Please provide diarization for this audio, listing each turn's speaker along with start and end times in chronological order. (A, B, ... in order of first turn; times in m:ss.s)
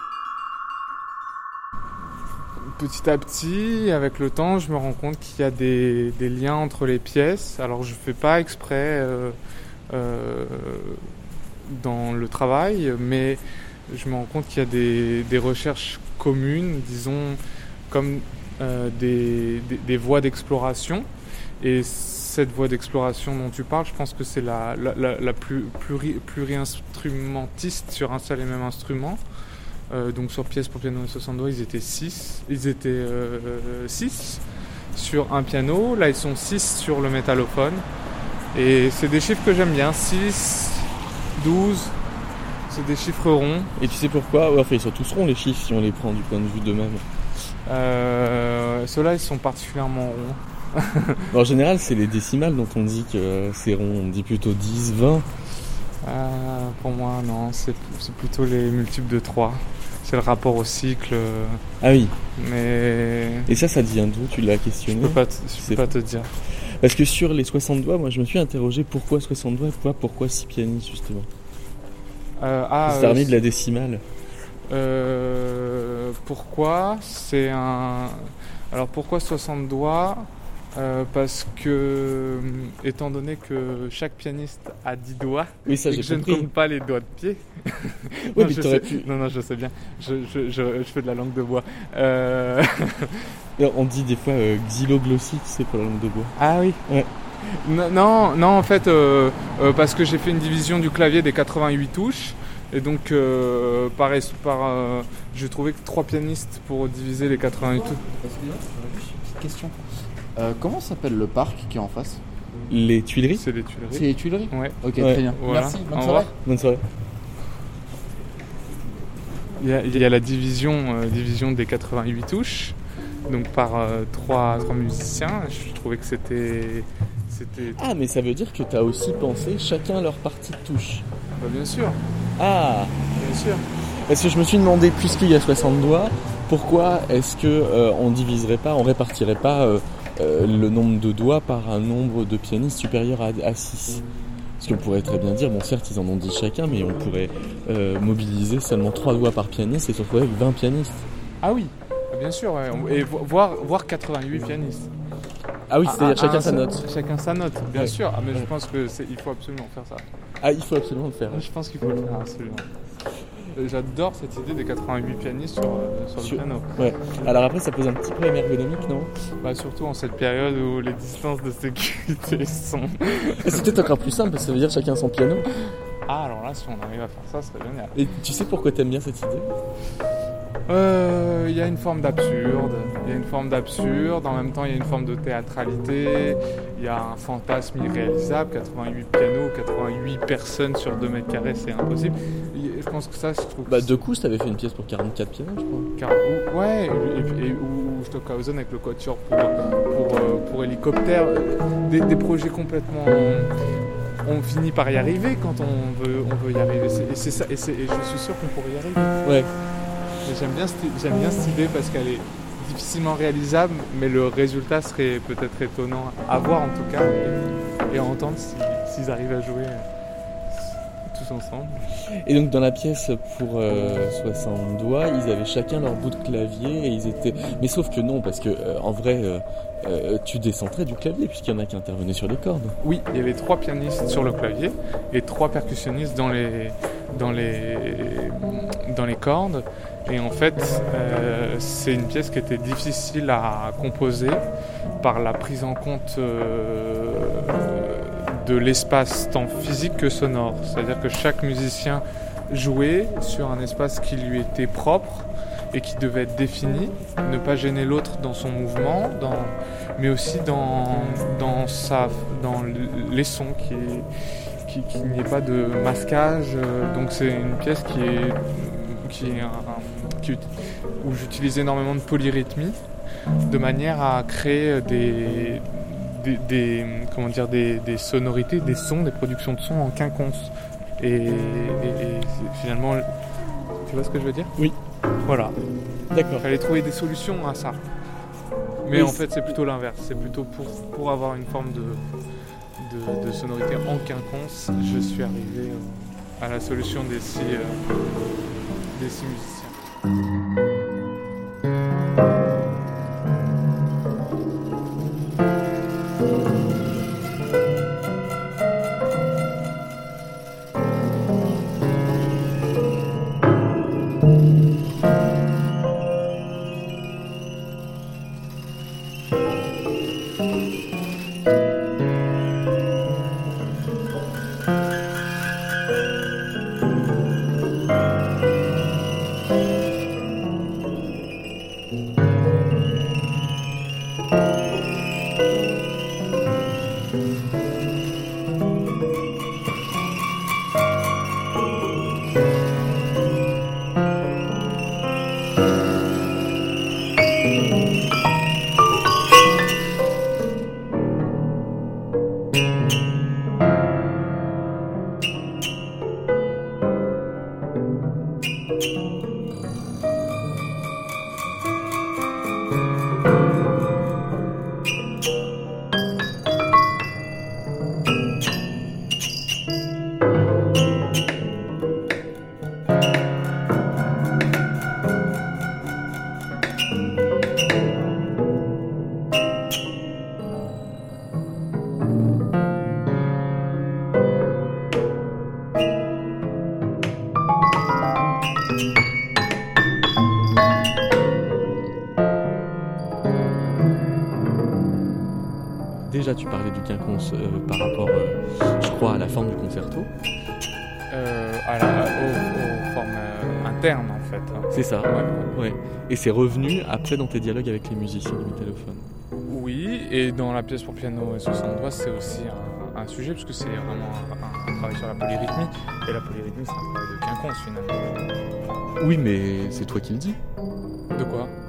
0:02.7-0:09.4 A
0:09.9-0:11.0 A
0:11.6-0:21.1 A
0:21.6-0:29.2 A
0:29.9-0:34.4 A
0:34.9-0:37.8 A
0:38.5-0:42.0 A
0:42.7-0:43.7 A
0:43.8-0:47.0 B
0:47.6-0:51.2 A
0:51.3-0:55.3 B
0:56.0-1:01.6 A
1:01.8-1:02.1 B
1:02.4-1:03.5 A
1:03.5-1:05.8 B
1:04.9-1:06.3 A
1:06.5-1:11.3 B
1:12.4-1:13.4 A
1:12.8-1:14.0 B
1:14.7-1:33.2 A
1:25.6-1:26.5 B
1:28.3-1:29.1 B
1:33.6-1:36.3 B
1:36.4-1:36.8 A
1:37.4-1:48.0 A
1:48.1-1:49.7 C
1:50.4-1:52.2 C
1:52.7-1:53.4 B
1:53.3-1:54.8 A
1:53.9-1:56.3 C
1:55.0-1:55.2 B
1:55.3-1:56.3 A
1:56.4-1:56.8 B
1:59.6-2:02.8 A
2:03.3-2:07.8 A
2:07.8-2:11.0 B
2:11.4-2:12.0 A
2:12.4-2:12.9 B
2:13.2-2:13.6 A
2:13.9-2:24.0 B
2:24.6-2:31.1 B
2:31.4-2:34.9 A
2:35.7-2:36.8 B
2:35.8-2:40.0 A
2:37.7-2:38.5 B
2:40.4-2:41.5 B
2:41.3-2:42.7 A
2:43.5-2:47.4 A
2:46.2-2:49.1 B
2:49.4-2:53.6 A
2:53.4-2:55.5 B
2:56.0-2:58.0 A
2:57.9-2:59.5 B
3:00.7-3:14.0 A
3:13.7-3:15.9 B
3:16.0-3:23.5 A
3:24.2-3:29.2 A
3:29.2-3:29.5 B
3:30.2-3:39.8 A
3:41.0-3:41.8 A
3:42.1-3:52.8 B
3:52.8-4:04.4 A
4:05.0-4:24.1 A
4:24.6-4:30.5 A
4:31.0-4:32.8 A
4:33.5-4:43.0 A
4:43.9-4:44.5 A
4:45.2-4:45.5 A
4:46.1-4:46.5 B
4:46.4-4:47.8 A
4:48.8-4:52.0 A
4:48.9-4:49.3 B
4:52.8-4:57.8 A
4:58.9-4:59.8 A
6:36.0-6:40.1 B
6:41.1-6:45.6 A
6:44.7-6:49.1 B
6:49.5-6:58.2 A
6:59.0-7:00.4 B
7:01.1-7:01.5 A